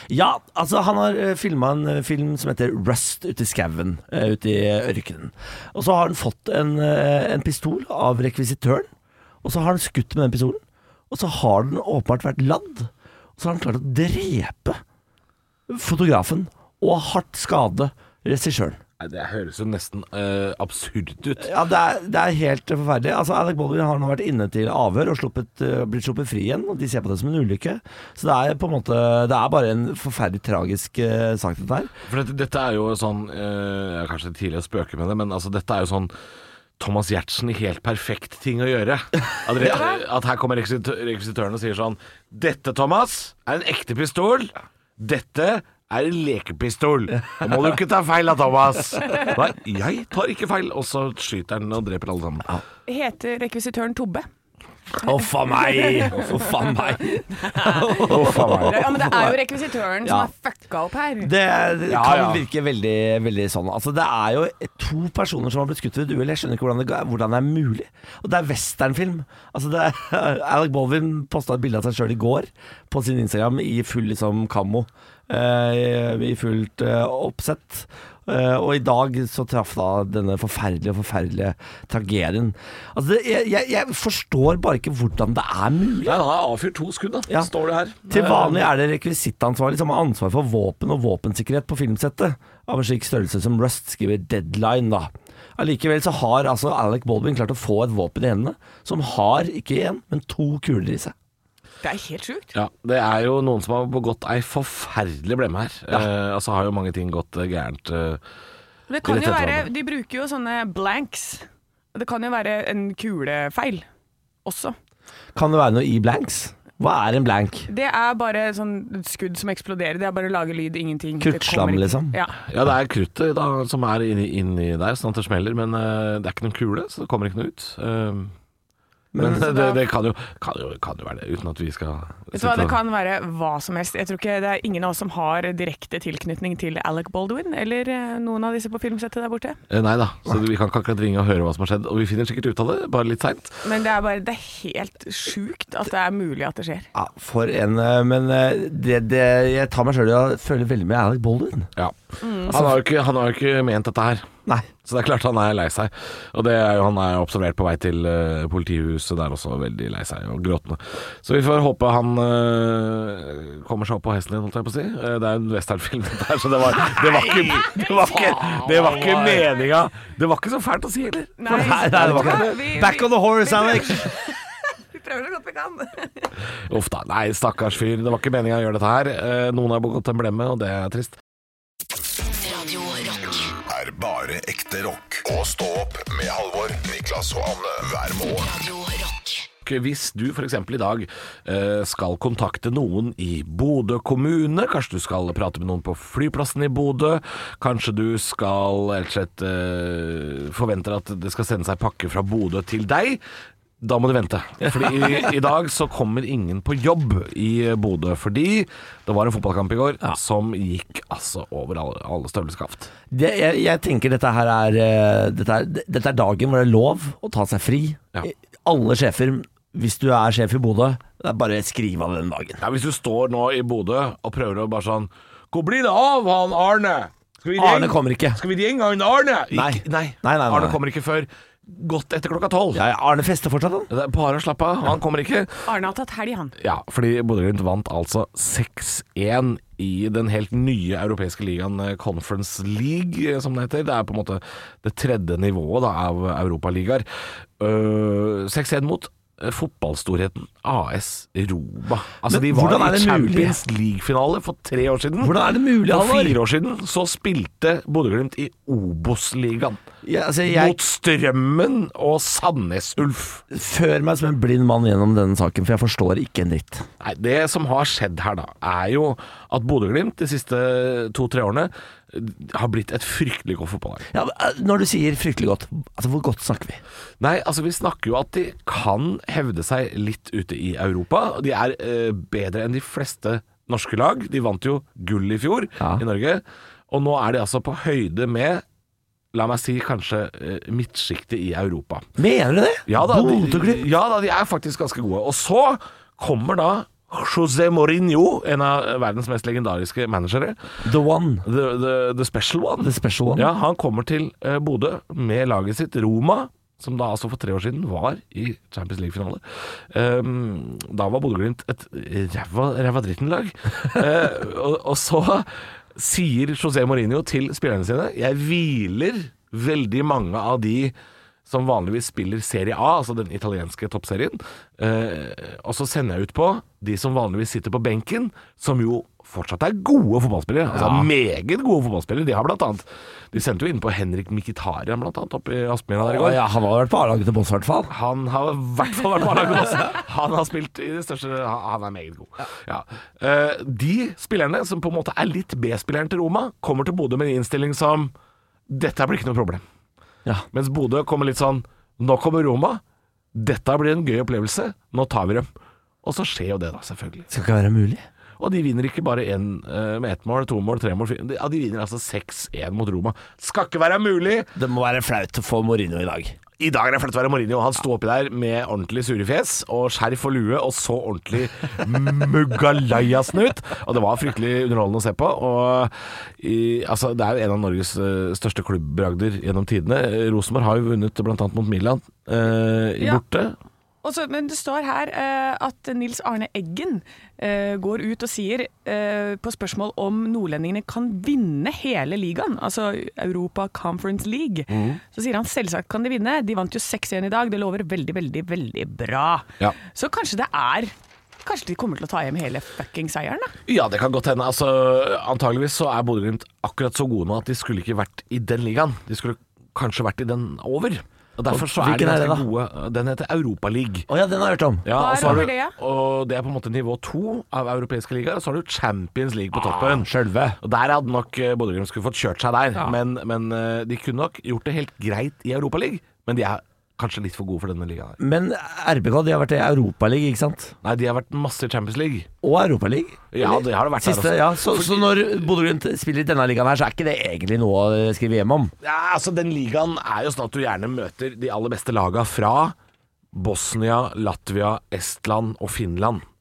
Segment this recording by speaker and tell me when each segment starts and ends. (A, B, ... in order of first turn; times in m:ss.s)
0:00.1-0:08.9 A
0:09.4-0:14.8 A
0:15.7-0:18.8 A
0:19.0-0:21.5 B
0:21.4-0:31.9 A
0:32.1-0:36.1 B
0:36.8-0:52.5 B
0:52.9-0:54.3 C
0:55.0-0:59.5 A
0:55.6-1:01.3 C
0:58.0-0:58.9 B
1:00.0-1:00.3 A
1:01.2-1:26.2 A
1:01.9-1:02.4 B
1:26.0-1:28.7 B
1:28.1-1:41.1 A
1:41.8-1:42.5 C
1:42.5-1:48.2 B
1:48.9-1:53.9 C
1:49.0-1:49.7 B
1:54.4-1:54.8 C
1:55.4-1:57.7 A
1:57.7-2:02.4 C
2:01.2-2:02.2 A
2:02.5-2:08.3 B
2:09.1-2:09.6 A
2:09.2-2:12.8 B
2:09.3-2:09.8 C
2:12.3-2:19.6 C
2:19.7-2:23.6 B
2:23.6-2:26.9 C
2:26.9-2:31.7 A
2:32.2-2:32.6 C
2:32.5-2:34.3 B
2:34.8-2:52.6 B
2:46.9-2:49.5 A
2:47.5-2:49.3 C
2:51.4-2:54.4 C
2:51.5-2:54.1 A
2:54.9-2:56.3 C
2:56.7-3:01.2 B
3:02.2-3:03.5 D
3:03.7-3:08.6 E
3:08.4-3:09.5 D
3:09.6-3:23.2 B
3:23.8-3:32.9 B
3:24.8-3:25.2 A
3:33.1-3:42.6 A
3:42.6-3:52.8 B
3:47.6-3:48.4 A
3:49.5-3:50.8 A
3:52.7-3:53.9 A
3:53.9-3:55.7 B
3:55.7-3:56.6 C
3:56.6-4:07.1 B
4:07.6-4:19.8 B
4:12.3-4:13.6 A
4:15.2-4:16.4 A
4:20.0-4:20.8 A
4:20.5-4:23.4 B
4:23.5-4:26.9 A
4:27.0-4:34.1 B
4:34.1-4:36.8 A
4:37.2-4:48.6 B
4:49.3-4:52.1 B
4:52.2-4:53.9 A
4:52.9-5:00.6 B
5:00.8-5:01.5 A
5:01.4-5:20.9 B
5:02.8-5:03.5 A
5:21.5-5:36.4 B
5:30.7-5:31.1 A
5:36.0-5:37.9 A
5:37.9-5:48.1 B
5:48.7-5:49.6 B
5:50.5-5:52.8 B
5:53.3-5:55.5 B
5:56.0-5:57.3 B
5:57.3-5:58.0 A
5:58.4-6:04.5 B
6:04.6-6:06.4 A
6:06.6-6:23.6 B
6:24.0-6:40.9 C
6:34.7-6:35.0 B
6:41.4-6:43.5 C
6:43.7-6:54.1 B
6:51.5-6:52.5 A
6:54.1-6:55.5 A
6:54.8-7:08.2 B
6:54.9-6:55.8 C
6:59.7-7:00.6 A
7:08.2-7:10.7 A
7:10.8-7:12.3 B
7:12.4-7:18.7 A
7:13.3-7:15.4 B
7:18.8-7:22.8 B
7:23.3-7:26.2 B